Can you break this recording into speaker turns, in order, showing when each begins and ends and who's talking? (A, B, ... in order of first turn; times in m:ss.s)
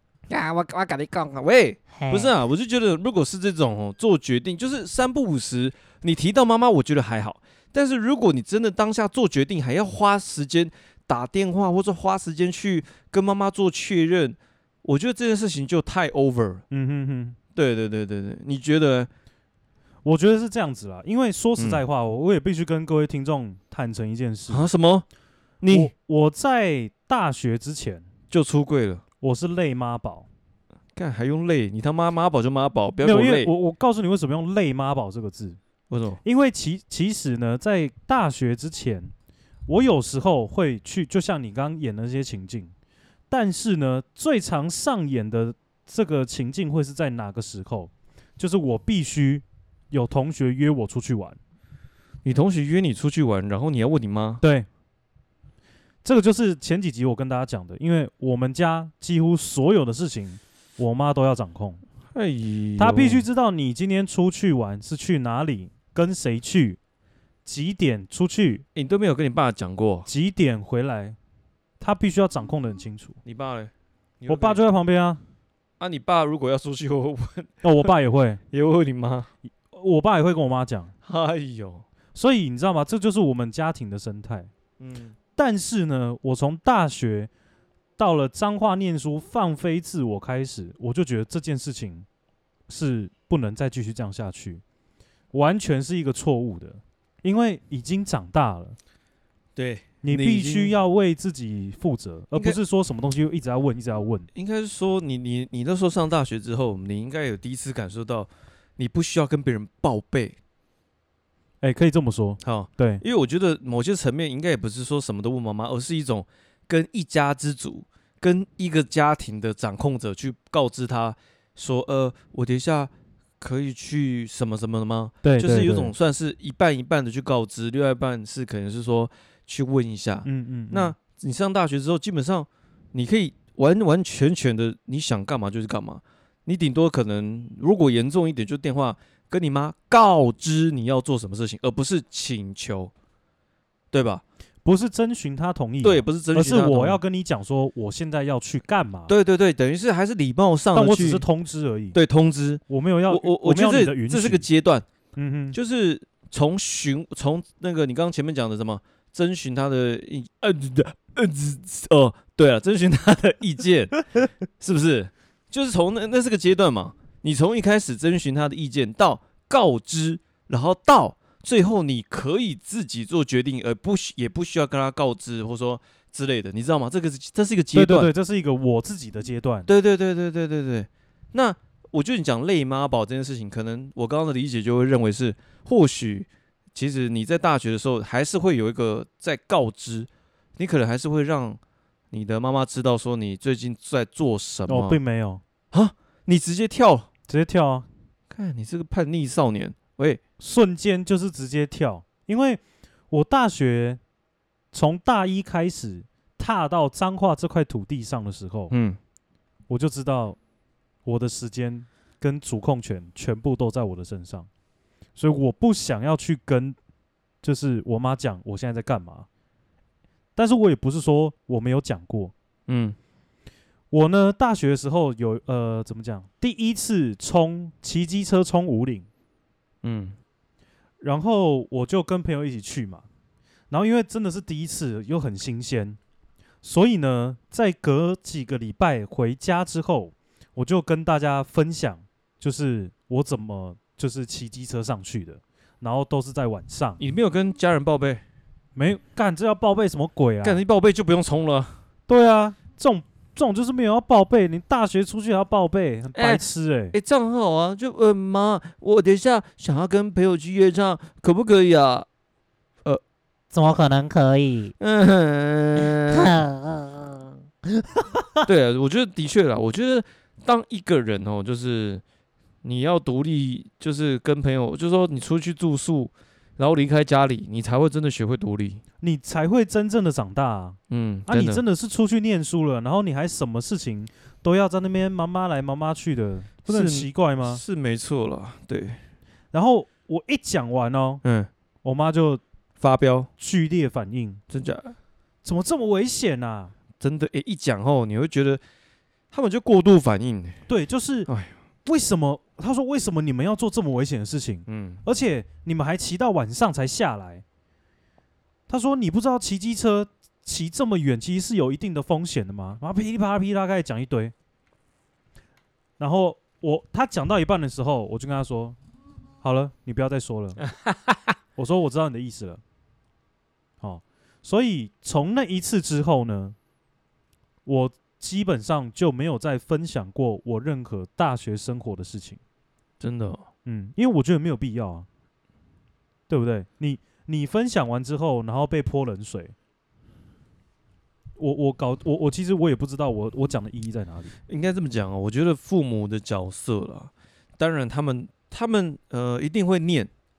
0:00.3-0:16.6 A
0:01.9-0:02.3 B
0:16.7-0:17.4 C
0:17.6-0:19.1 A
0:20.0-0:24.7 C
0:21.6-0:21.8 A
0:24.5-0:25.1 A
0:25.6-0:25.9 A
0:25.7-0:28.1 C
0:28.3-0:29.0 A
0:29.2-0:30.3 C
0:31.0-0:33.5 A
0:33.0-0:35.6 C
0:35.9-0:36.2 A
0:36.2-0:39.1 C
0:39.7-0:42.7 C
0:43.3-0:51.4 C
0:52.2-0:54.4 A
0:54.4-0:54.7 C
0:56.0-1:01.8 C
1:02.1-1:03.2 A
1:02.8-1:06.8 C
1:07.4-1:08.6 C
1:08.8-1:10.1 A
1:10.1-1:11.2 C
1:11.8-1:13.2 C
1:13.2-1:14.6 A
1:14.3-1:15.2 C
1:15.8-1:17.6 A
1:17.6-1:18.4 C
1:18.5-1:19.3 A
1:19.7-1:20.9 C
1:21.0-1:21.9 A
1:22.2-1:24.5 C
1:24.8-1:25.2 A
1:25.4-1:27.3 C
1:28.0-1:32.1 C
1:32.7-1:34.6 C
1:35.3-1:38.8 C
1:39.6-1:40.8 A
1:40.0-1:44.3 C
1:42.3-1:42.6 A
1:44.3-1:50.4 A
1:51.6-1:53.0 C
1:52.4-2:22.9 A
2:05.2-2:05.9 C
2:10.2-2:10.9 C
2:23.9-2:24.2 A
2:24.6-2:29.1 C
2:25.8-2:27.0 A
2:29.1-2:31.2 A
2:30.7-2:32.0 C
2:31.9-2:34.9 A
2:32.7-2:34.5 C
2:35.2-2:35.6 C
2:35.5-2:58.1 A
2:57.7-2:59.7 C
2:59.7-3:11.6 A
3:12.1-3:15.0 A
3:14.7-3:15.4 C
3:15.7-3:17.1 A
3:17.3-3:17.9 C
3:18.3-3:20.2 A
3:20.4-3:24.0 C
3:24.7-3:28.7 C
3:28.7-3:29.0 A
3:29.7-3:30.4 C
3:31.1-3:34.5 C
3:35.2-3:36.8 C
3:37.4-3:39.3 C
3:40.4-3:42.3 C
3:42.7-3:43.0 A
3:43.9-3:49.1 C
3:49.8-3:50.2 A
3:51.0-3:53.0 C
3:53.7-3:56.0 C
3:56.6-4:07.0 C
4:07.0-4:08.2 A
4:08.8-4:10.6 C
4:10.4-4:11.8 A
4:12.1-4:17.0 C
4:16.1-4:22.1 A
4:23.5-4:24.7 B
4:24.8-4:26.4 A
4:25.9-4:27.2 B
4:28.5-4:32.0 A
4:32.6-4:38.8 A
4:39.0-4:47.6 C
4:40.9-4:41.6 A
4:46.7-4:49.0 A
4:49.5-4:51.2 C
4:51.2-4:51.5 A
4:51.8-4:52.4 C
4:52.8-4:53.3 A
4:53.4-4:54.4 C
4:54.5-4:55.0 A
4:55.4-4:56.7 C
4:57.0-4:58.6 A
4:59.3-5:00.6 A
5:00.7-5:01.3 C
5:01.3-5:01.6 A
5:01.8-5:07.4 C
5:04.7-5:05.0 A
5:08.7-5:14.3 C
5:16.0-5:18.8 C
5:19.4-5:20.7 C
5:21.6-5:22.6 C
5:23.8-5:26.6 C
5:27.7-5:32.4 C
5:33.0-5:33.5 A
5:33.7-5:35.1 C
5:36.3-5:39.6 C
5:41.4-5:44.4 C
5:44.5-5:50.1 A